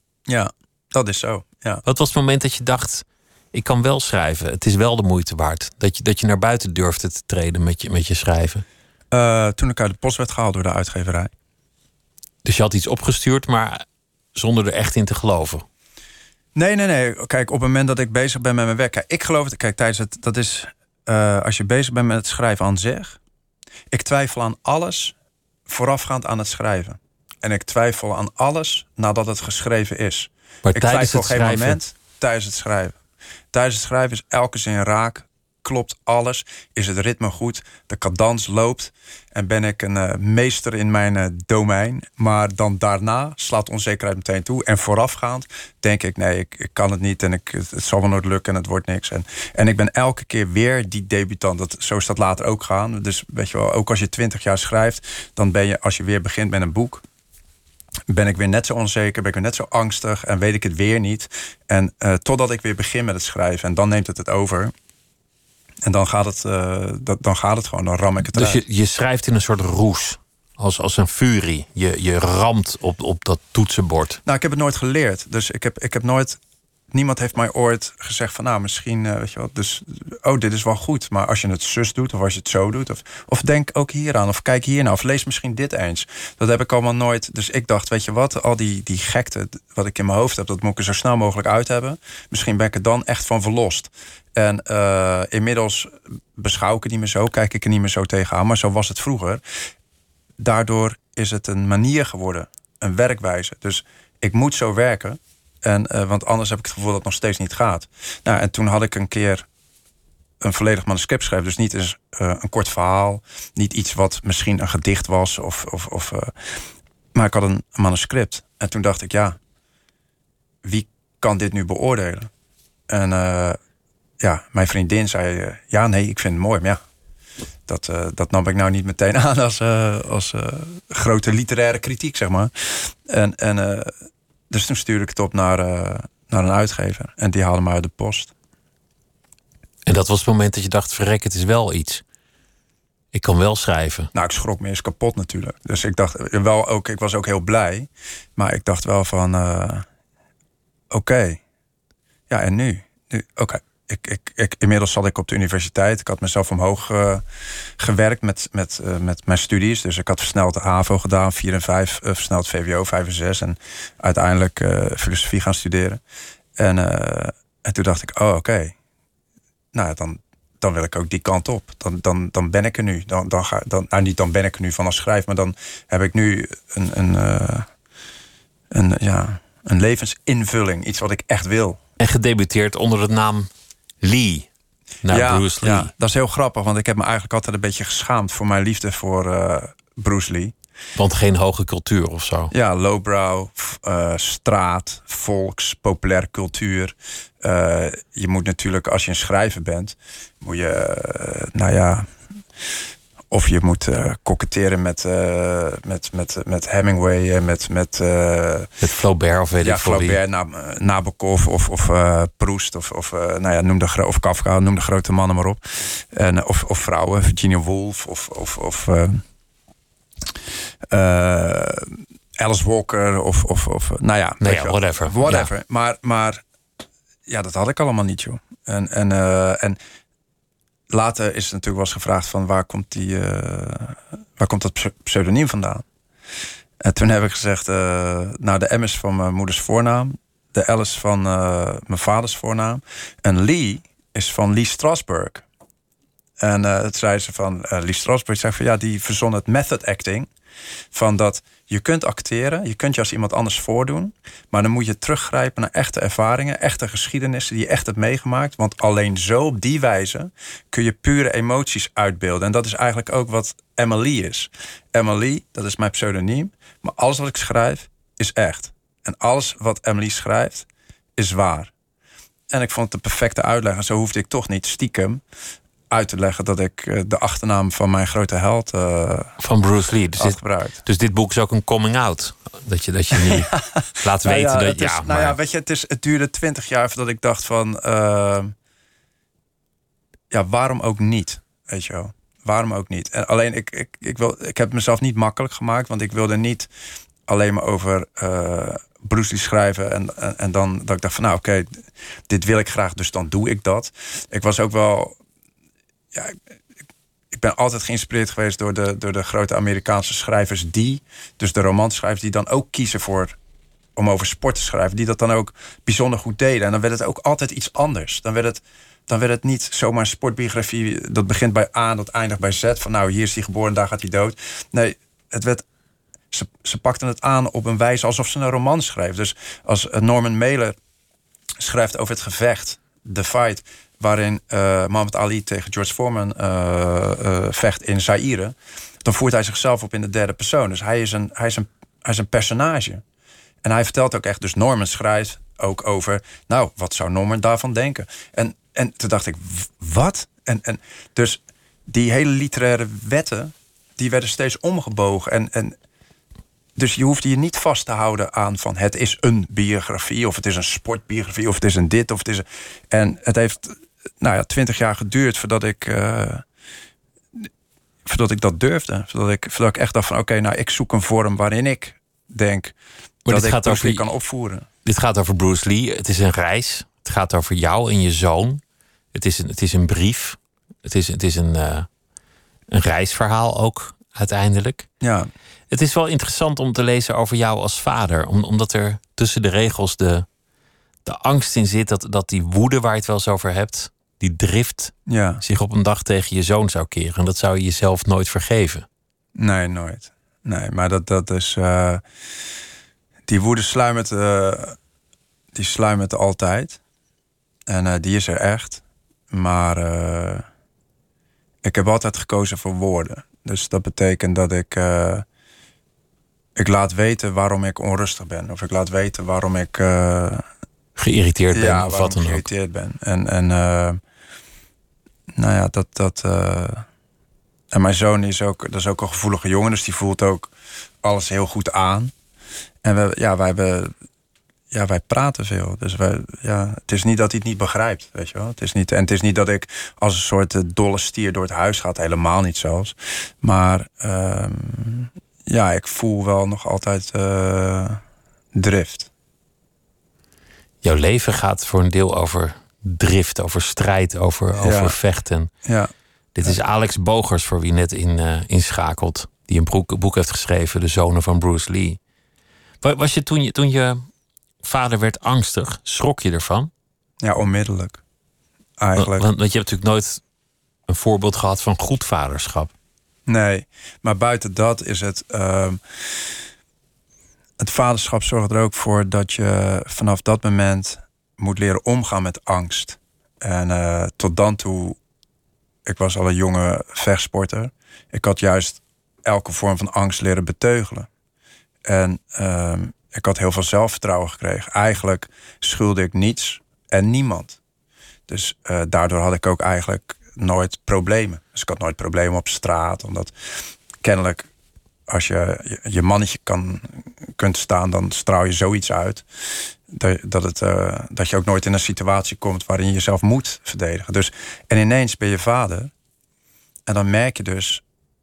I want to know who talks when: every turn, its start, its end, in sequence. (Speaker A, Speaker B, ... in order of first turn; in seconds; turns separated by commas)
Speaker A: 0.3-1.8, Speaker B: 1.8-8.6, Speaker A: 9.1-11.3, Speaker B: 12.4-13.8, Speaker B: 14.3-15.7, Speaker A: 16.5-23.2, Speaker A: 23.9-25.1, Speaker A: 25.7-33.0, Speaker B: 30.6-31.8, Speaker A: 33.5-57.0, Speaker A: 58.1-64.7, Speaker A: 65.8-68.6, Speaker B: 68.3-74.2, Speaker A: 74.2-76.4, Speaker A: 76.9-99.4, Speaker A: 100.4-109.5, Speaker A: 110.4-116.6, Speaker A: 117.1-119.4, Speaker A: 120.6-122.3, Speaker A: 122.9-123.6, Speaker A: 124.2-126.8, Speaker A: 127.7-133.9, Speaker A: 134.5-138.3, Speaker B: 139.8-142.0, Speaker B: 143.1-144.1, Speaker A: 144.1-149.8, Speaker A: 150.9-151.4, Speaker A: 152.3-157.2, Speaker A: 157.8-166.0, Speaker A: 166.6-168.7, Speaker A: 169.7-177.7, Speaker A: 178.7-181.8, Speaker B: 182.0-183.5, Speaker B: 184.0-184.5, Speaker B: 185.0-185.9, Speaker A: 185.1-190.5, Speaker B: 190.9-192.5, Speaker A: 192.5-202.1, Speaker A: 203.3-208.7, Speaker B: 208.8-210.2, Speaker A: 209.6-219.2, Speaker A: 220.9-226.4, Speaker B: 224.4-225.5, Speaker A: 227.2-229.8, Speaker A: 230.9-235.8, Speaker A: 236.8-245.4, Speaker A: 246.4-250.3, Speaker A: 250.9-271.7, Speaker A: 272.5-275.2, Speaker A: 275.9-279.3, Speaker B: 279.4-285.4, Speaker A: 280.2-280.8, Speaker A: 283.1-288.5, Speaker A: 290.3-296.7, Speaker A: 297.3-305.1, Speaker A: 307.3-313.4, Speaker A: 313.9-325.6, Speaker A: 326.3-330.8, Speaker A: 331.6-343.0, Speaker A: 343.6-355.8, Speaker A: 356.8-366.4, Speaker A: 368.0-372.7, Speaker B: 373.2-374.1, Speaker A: 373.3-374.7, Speaker B: 374.8-378.6, Speaker B: 379.1-381.9, Speaker B: 382.7-384.9, Speaker A: 385.0-385.3, Speaker B: 385.7-390.2, Speaker B: 391.0-398.9, Speaker A: 395.1-395.4, Speaker A: 399.4-402.0, Speaker A: 403.3-404.8, Speaker A: 405.5-406.8, Speaker A: 407.7-410.4, Speaker A: 411.6-415.2, Speaker A: 416.6-420.4, Speaker B: 421.0-422.4, Speaker A: 421.5-424.0, Speaker A: 425.3-426.8, Speaker A: 427.7-430.5, Speaker A: 431.0-432.1, Speaker A: 432.8-433.9, Speaker A: 434.7-448.0, Speaker A: 448.5-449.1, Speaker B: 450.8-455.5, Speaker A: 454.6-454.9, Speaker A: 455.6-455.9, Speaker B: 456.3-462.0, Speaker B: 462.8-464.0, Speaker B: 464.6-466.7, Speaker A: 467.2-468.0, Speaker A: 468.8-469.3, Speaker B: 468.9-470.2, Speaker B: 470.9-472.7, Speaker A: 473.3-476.3, Speaker A: 477.6-485.0, Speaker A: 485.9-491.1, Speaker A: 491.9-497.6, Speaker A: 498.3-503.3, Speaker A: 504.0-504.5, Speaker A: 505.1-509.2, Speaker A: 509.9-515.9, Speaker A: 516.9-517.8